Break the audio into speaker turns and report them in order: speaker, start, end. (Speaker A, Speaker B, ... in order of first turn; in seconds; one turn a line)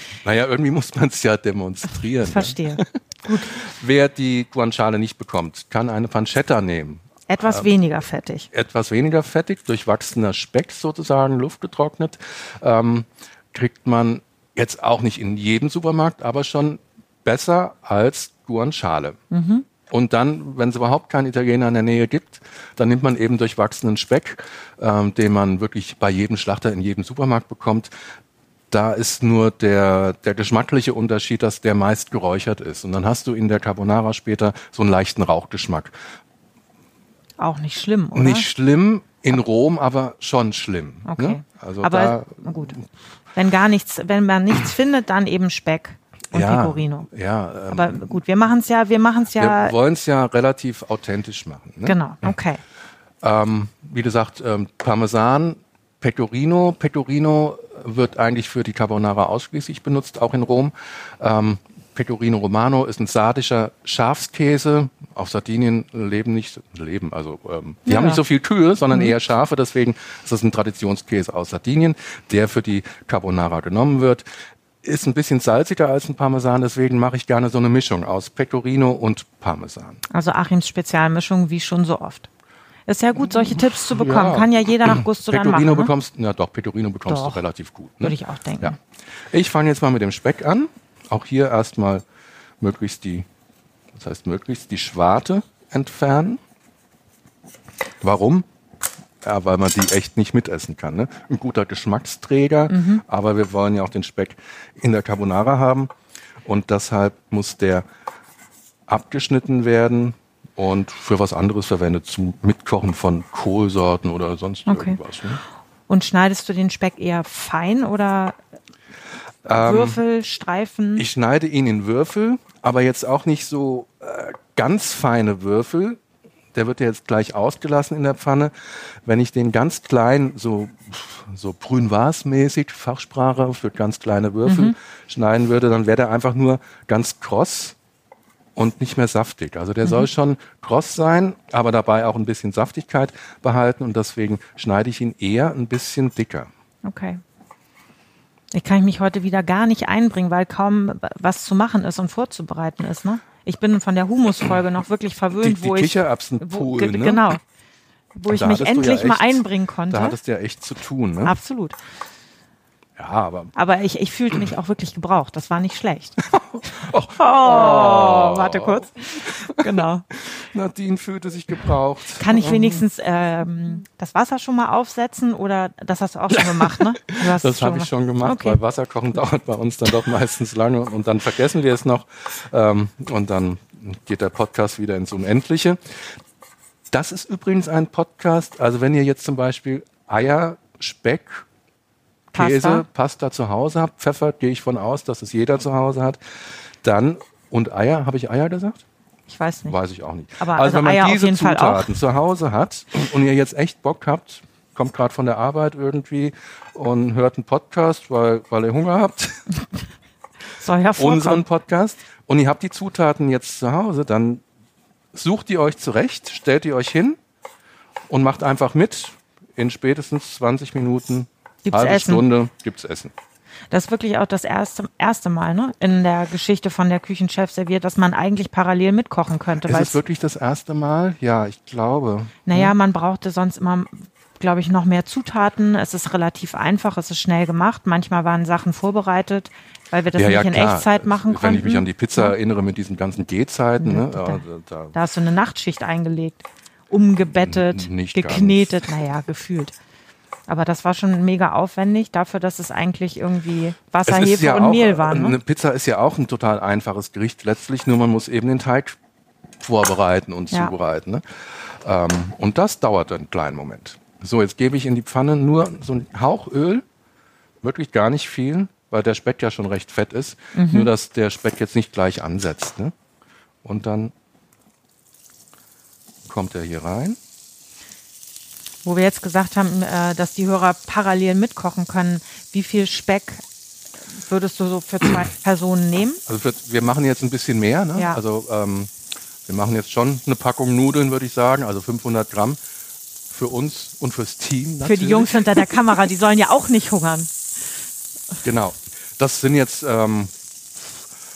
Speaker A: 0.2-2.9
Speaker B: 2.2-3.5
Speaker A: 3.5-7.7
Speaker B: 7.3-8.5
Speaker A: 8.5-19.2
Speaker B: 19.3-19.6
Speaker A: 19.9-27.9
Speaker A: 28.7-36.0
Speaker B: 37.4-38.5
Speaker A: 38.1-42.7
Speaker B: 41.1-42.8
Speaker B: 43.3-47.1
Speaker A: 46.3-48.2
Speaker B: 47.7-49.8
Speaker A: 49.4-52.0
Speaker B: 51.8-52.6
Speaker A: 53.2-74.2
Speaker B: 67.8-68.2
Speaker A: 74.8-80.0
Speaker B: 80.1-82.3
Speaker B: 82.9-85.9
Speaker A: 83.6-88.8
Speaker B: 87.1-87.4
Speaker B: 88.0-88.8
Speaker A: 89.3-92.0
Speaker A: 92.6-93.2
Speaker A: 93.9-96.4
Speaker A: 98.0-98.5
Speaker A: 99.2-105.9
Speaker B: 102.7-103.0
Speaker A: 106.4-107.8
Speaker A: 108.9-115.4
Speaker B: 114.7-115.0
Speaker B: 115.9-118.4
Speaker A: 119.4-120.0
Speaker B: 119.5-121.0
Speaker A: 121.0-126.0
Speaker A: 126.5-137.8
Speaker B: 134.4-134.7
Speaker A: 138.6-146.5
Speaker B: 146.8-147.2
Speaker B: 148.5-157.4
Speaker A: 155.4-157.2
Speaker B: 158.1-160.2
Speaker A: 158.3-161.3
Speaker B: 161.2-161.8
Speaker A: 163.0-163.5
Speaker B: 163.5-166.2
Speaker A: 166.2-172.8
Speaker B: 167.2-170.1
Speaker B: 172.2-178.6
Speaker A: 176.4-186.0
Speaker A: 186.9-191.4
Speaker B: 192.3-192.8
Speaker A: 192.3-196.2
Speaker A: 196.8-198.8
Speaker B: 199.3-199.8
Speaker A: 199.7-209.4
Speaker B: 200.4-201.9
Speaker B: 210.5-211.4
Speaker A: 211.0-214.4
Speaker A: 215.1-217.2
Speaker A: 218.1-223.1
Speaker B: 221.6-222.2
Speaker B: 223.7-230.0
Speaker A: 229.6-232.7
Speaker B: 232.5-242.3
Speaker A: 240.1-244.9
Speaker B: 243.8-244.4
Speaker B: 244.9-249.7
Speaker A: 247.3-248.9
Speaker B: 250.5-255.4
Speaker A: 254.1-259.0
Speaker A: 259.6-266.8
Speaker A: 267.6-272.9
Speaker B: 270.5-270.9
Speaker A: 273.6-274.1
Speaker A: 276.2-277.2
Speaker B: 278.8-283.4
Speaker B: 284.1-286.2
Speaker A: 286.2-288.9
Speaker A: 289.4-292.6
Speaker A: 293.3-295.7
Speaker B: 294.8-297.3
Speaker A: 298.4-301.0